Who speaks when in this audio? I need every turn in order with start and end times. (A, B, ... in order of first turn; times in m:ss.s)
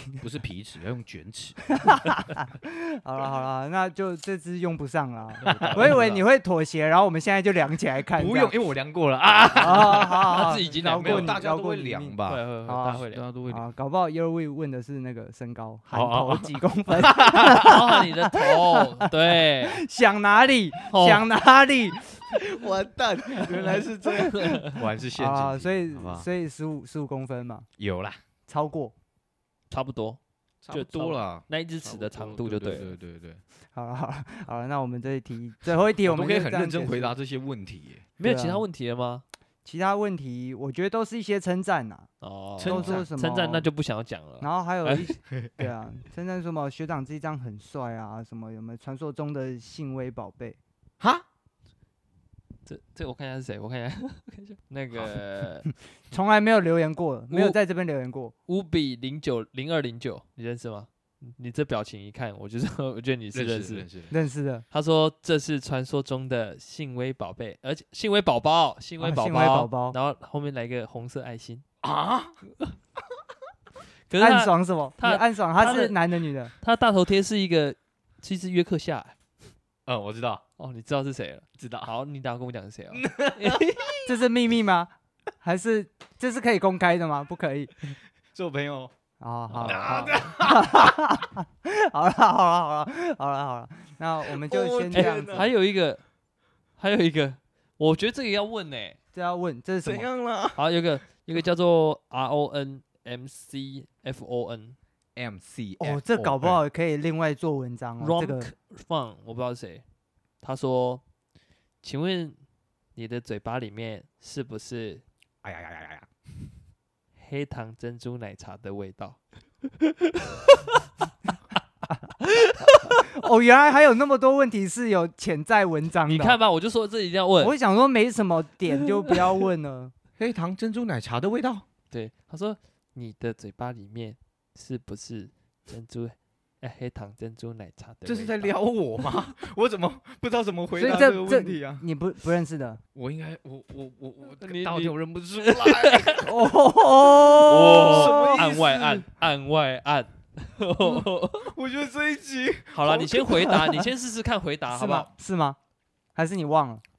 0:00.2-0:01.7 A
0:01.8-0:08.5 B
0:05.4-0:06.2 A
0:05.4-0:06.2 C
0:08.1-0:13.6 A
0:09.6-0:22.4 B
0:09.8-0:11.4 C
0:12.2-0:13.2 C
0:15.9-0:17.8 A
0:17.4-0:19.8 C
0:20.9-0:21.2 C
0:22.3-0:26.3 A
0:23.3-0:24.6 B
0:24.3-0:24.8 C
0:25.2-0:27.7 B
0:27.8-0:28.2 A
0:28.5-0:28.9 B
0:29.7-0:30.2 C
0:30.6-0:33.4 A
0:30.7-0:32.9 C
0:33.7-0:37.1 B
0:36.0-0:38.1 A
0:38.2-0:39.2 C
0:38.2-0:38.6 B
0:39.6-0:42.1 B
0:42.2-0:45.1 C
0:42.6-0:43.1 A
0:42.6-0:43.6 B
0:44.4-0:50.6 B
0:45.3-0:45.6 A
0:51.0-0:51.2 A
0:52.6-0:55.7 C
0:56.1-0:58.3 B
0:57.3-0:57.6 C
0:58.5-1:03.9 C
1:03.3-1:04.1 A
1:04.1-1:04.6 B
1:04.7-1:11.6 C
1:09.0-1:10.0 B
1:11.8-1:12.4 A
1:14.1-1:16.0 C
1:14.1-1:16.5 B
1:16.6-1:19.1 C
1:19.8-1:20.4 A
1:20.6-1:24.0 C
1:21.6-1:21.9 A
1:22.9-1:24.0 A
1:24.0-1:24.9 B
1:25.4-1:27.9 B
1:28.3-1:28.9 A
1:29.2-1:35.5 B
1:29.5-1:30.3 C
1:29.7-1:31.0 A
1:34.4-1:35.5 A
1:34.9-1:36.0 C
1:36.8-1:39.0 C
1:39.1-1:40.1 B
1:39.8-1:40.7 A
1:40.6-1:44.8 C
1:45.2-1:46.6 A
1:45.8-1:48.5 B
1:48.0-1:49.8 C
1:50.4-1:51.0 C
1:51.8-1:52.4 C
1:53.0-1:55.0 C
1:55.4-1:56.1 A
1:57.2-2:00.8 C
2:02.2-2:03.1 C
2:02.6-2:06.4 B
2:06.0-2:07.6 C
2:07.4-2:09.9 B
2:09.0-2:09.3 C
2:10.2-2:11.6 A
2:11.9-2:18.5 C
2:18.0-2:21.8 A
2:20.8-2:22.8 B
2:22.9-2:26.3 A
2:24.4-2:26.3 C
2:26.2-2:28.5 B
2:27.1-2:31.5 C
2:27.8-2:29.1 A
2:31.4-2:33.5 A
2:32.7-2:35.1 C
2:33.4-2:33.9 B
2:34.7-2:35.6 B
2:36.1-2:36.8 B